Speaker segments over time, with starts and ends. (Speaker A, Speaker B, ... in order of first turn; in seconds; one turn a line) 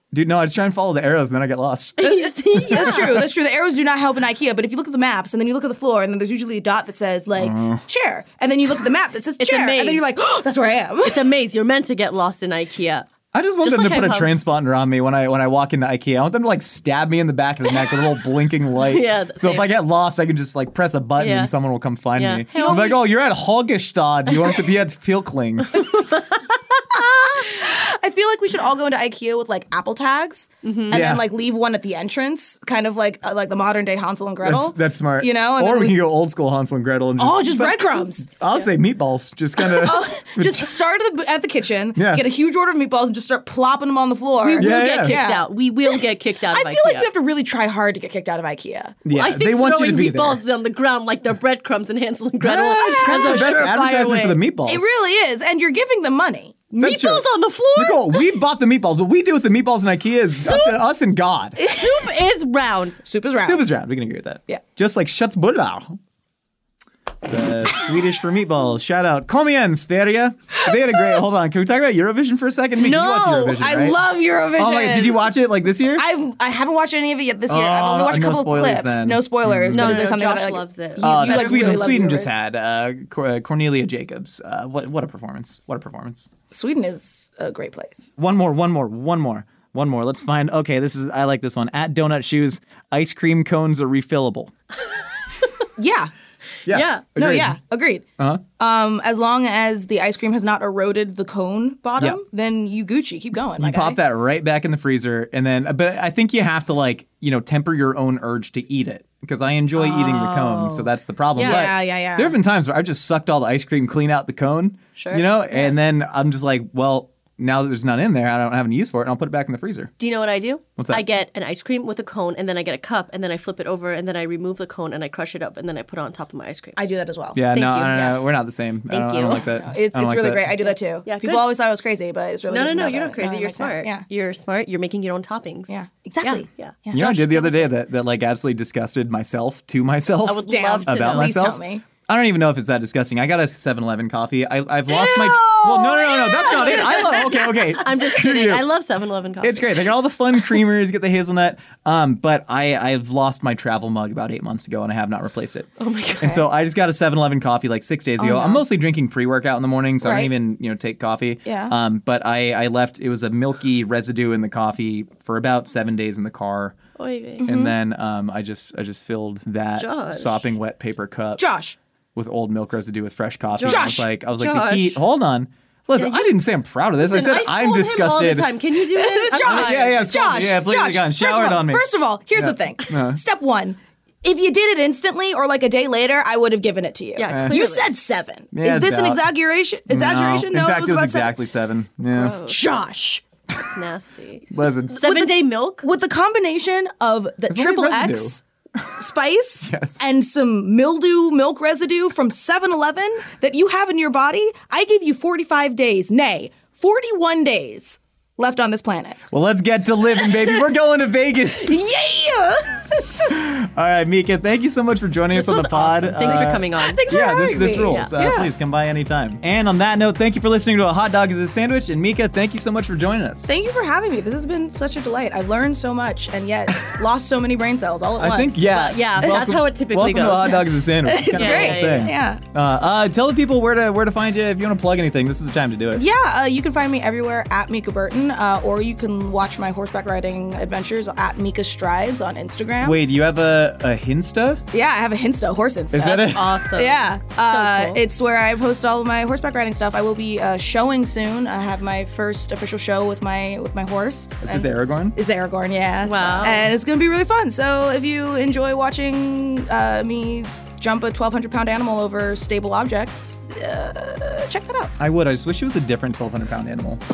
Speaker A: 0.1-3.2
Speaker B: 2.0-3.1
Speaker C: 2.6-11.2
Speaker A: 7.4-7.8
Speaker B: 9.4-10.0
Speaker B: 11.0-13.1
Speaker A: 13.3-25.9
Speaker B: 13.6-14.4
Speaker B: 18.8-19.7
Speaker B: 21.2-21.5
Speaker B: 22.2-23.0
Speaker C: 22.6-22.9
Speaker B: 25.7-27.4
Speaker C: 27.3-36.0
Speaker B: 30.6-31.0
Speaker A: 30.9-31.2
Speaker A: 34.4-40.7
Speaker C: 37.2-38.3
Speaker C: 39.6-49.0
Speaker A: 42.0-42.2
Speaker B: 44.4-47.1
Speaker A: 44.6-45.2
Speaker A: 49.0-50.4
Speaker B: 49.1-54.4
Speaker A: 52.4-54.9
Speaker C: 52.7-53.6
Speaker C: 54.7-56.6
Speaker B: 56.7-58.3
Speaker A: 56.8-61.6
Speaker B: 60.4-60.8
Speaker C: 61.6-62.0
Speaker B: 61.6-63.0
Speaker C: 63.0-63.6
Speaker A: 63.4-66.0
Speaker A: 67.2-74.0
Speaker B: 72.8-73.6
Speaker C: 73.6-75.3
Speaker A: 74.5-76.0
Speaker C: 76.0-82.3
Speaker A: 77.5-80.1
Speaker B: 79.7-82.0
Speaker A: 81.0-86.3
Speaker C: 86.5-88.1
Speaker A: 88.2-94.5
Speaker B: 95.4-95.7
Speaker C: 95.8-96.1
Speaker A: 96.7-97.6
Speaker B: 96.7-97.0
Speaker C: 97.2-98.0
Speaker C: 98.6-104.0
Speaker A: 103.6-119.9
Speaker C: 109.8-110.8
Speaker B: 111.3-111.7
Speaker C: 111.4-112.4
Speaker B: 115.0-115.3
Speaker B: 120.0-126.8
Speaker A: 120.8-121.0
Speaker C: 126.8-128.2
Speaker A: 127.3-130.5
Speaker B: 127.5-128.2
Speaker B: 128.9-129.4
Speaker C: 129.3-134.0
Speaker B: 130.7-131.5
Speaker B: 132.5-137.7
Speaker C: 135.7-137.1
Speaker A: 136.9-148.6
Speaker B: 140.2-141.3
Speaker C: 140.5-141.8
Speaker C: 144.9-147.6
Speaker B: 146.5-149.9
Speaker A: 149.4-155.7
Speaker B: 155.8-156.4
Speaker A: 156.2-166.8
Speaker C: 158.2-158.6
Speaker C: 160.0-160.3
Speaker C: 161.4-161.7
Speaker B: 167.0-167.5
Speaker C: 167.4-167.7
Speaker A: 167.4-171.4
Speaker B: 169.8-170.4
Speaker C: 171.4-171.8
Speaker A: 172.2-178.6
Speaker B: 173.6-175.0
Speaker C: 173.6-174.0
Speaker B: 175.9-176.3
Speaker B: 177.0-180.1
Speaker C: 178.9-191.3
Speaker A: 179.4-183.2
Speaker B: 187.1-187.9
Speaker A: 187.3-187.6
Speaker A: 188.5-189.3
Speaker A: 189.9-192.4
Speaker B: 192.1-192.6
Speaker C: 192.4-193.2
Speaker B: 193.7-195.8
Speaker A: 194.5-195.0
Speaker C: 195.0-198.4
Speaker A: 197.5-198.9
Speaker C: 199.0-209.2
Speaker A: 199.6-200.0
Speaker A: 209.3-211.8
Speaker C: 210.2-210.6
Speaker C: 211.6-213.3
Speaker A: 213.3-223.6
Speaker B: 215.3-217.0
Speaker C: 216.2-218.5
Speaker B: 217.9-218.1
Speaker C: 223.5-228.6
Speaker A: 228.2-236.1
Speaker B: 228.6-230.7
Speaker C: 231.1-232.4
Speaker B: 231.3-232.1
Speaker C: 235.9-243.0
Speaker A: 242.8-244.6
Speaker C: 244.7-264.9
Speaker A: 245.9-246.5
Speaker B: 246.1-248.0
Speaker A: 254.4-255.2
Speaker B: 256.0-256.7
Speaker A: 265.0-267.0